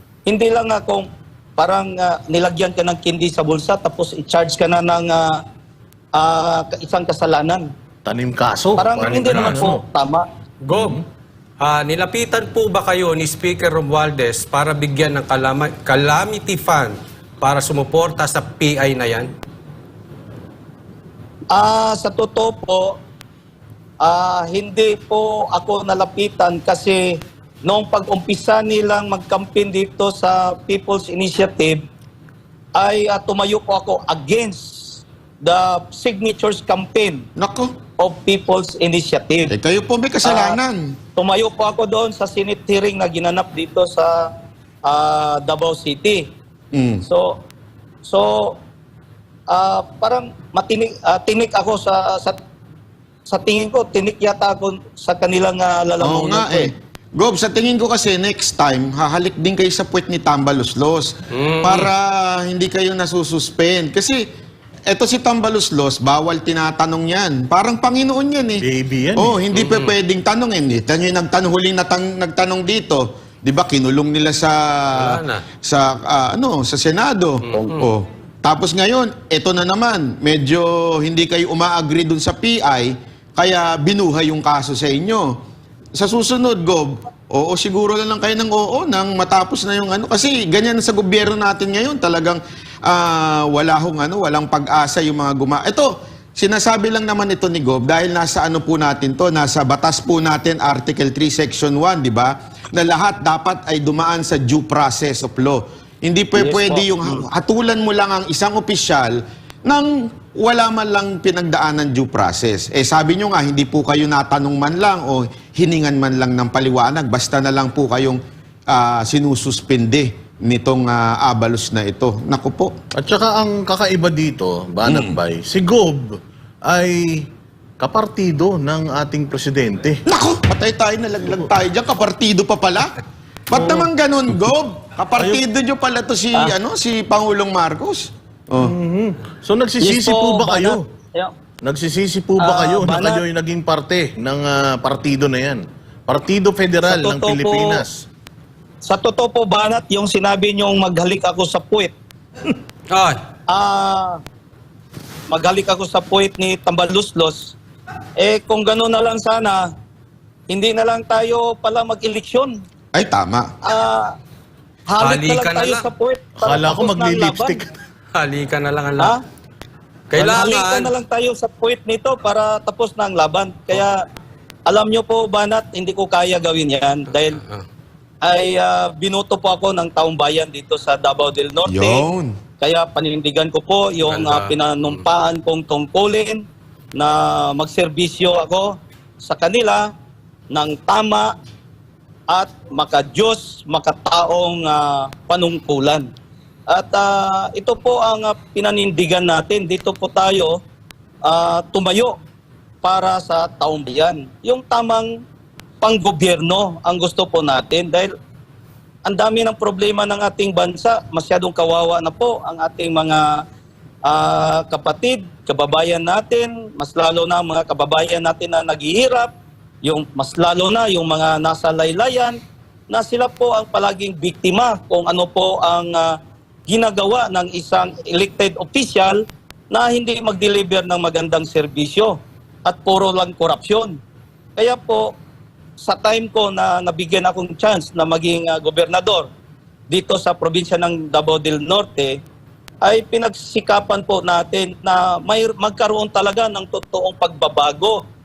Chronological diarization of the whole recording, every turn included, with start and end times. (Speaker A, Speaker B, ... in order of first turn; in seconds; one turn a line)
Speaker A: 0.3-5.4
Speaker A: 6.2-7.7
Speaker B: 8.0-9.8
Speaker A: 8.8-10.2
Speaker C: 9.0-9.7
Speaker C: 10.6-11.0
Speaker B: 10.7-11.0
Speaker C: 11.6-19.3
Speaker A: 21.5-23.0
Speaker A: 24.0-27.0
Speaker A: 27.6-31.8
Speaker A: 32.8-37.2
Speaker D: 37.4-37.7
Speaker A: 38.0-39.5
Speaker D: 39.5-41.0
Speaker A: 40.2-40.6
Speaker A: 41.1-44.3
Speaker A: 44.9-46.3
Speaker D: 46.7-47.0
Speaker A: 47.0-47.4
Speaker A: 48.0-48.6
Speaker A: 49.5-52.4
Speaker A: 53.3-56.7
Speaker D: 56.0-64.2
Speaker C: 61.3-61.9
Speaker D: 64.9-68.6
Speaker B: 68.6-69.4
Speaker D: 69.1-85.3
Speaker C: 69.5-69.9
Speaker C: 74.9-75.4
Speaker C: 77.4-77.9
Speaker D: 85.9-122.7
Speaker A: 106.4-107.2
Speaker B: 122.9-127.3
Speaker D: 124.8-125.2
Speaker B: 127.8-130.0
Speaker D: 130.1-133.0
Speaker D: 133.5-138.7
Speaker B: 133.6-133.8
Speaker B: 135.2-135.4
Speaker B: 138.6-140.8
Speaker A: 139.8-141.3
Speaker B: 141.6-148.0
Speaker A: 142.4-143.2
Speaker A: 146.8-147.8
Speaker A: 148.8-151.9
Speaker C: 152.9-153.2
Speaker A: 153.5-154.2
Speaker A: 155.3-157.5
Speaker A: 158.2-159.7
Speaker A: 160.5-162.6
Speaker D: 162.9-163.5
Speaker A: 163.6-164.1
Speaker A: 164.9-167.6
Speaker C: 165.0-165.9
Speaker B: 166.4-167.7
Speaker C: 168.1-169.1
Speaker C: 170.1-170.9
Speaker A: 170.2-174.0
Speaker A: 174.7-177.4
Speaker C: 177.2-177.6
Speaker A: 178.2-182.0
Speaker D: 181.7-182.4
Speaker A: 182.6-186.4
Speaker C: 184.0-184.5
Speaker A: 186.9-189.9
Speaker A: 190.5-191.3
Speaker A: 192.3-196.1
Speaker A: 196.7-200.6
Speaker A: 201.2-202.1
Speaker A: 202.8-205.2
Speaker A: 205.8-208.1
Speaker A: 209.1-213.4
Speaker A: 214.1-219.3
Speaker A: 219.8-222.4
Speaker A: 222.9-226.1
Speaker A: 226.7-234.0
Speaker A: 234.6-235.1
Speaker A: 235.8-239.3
Speaker A: 239.9-242.2
Speaker A: 242.8-248.0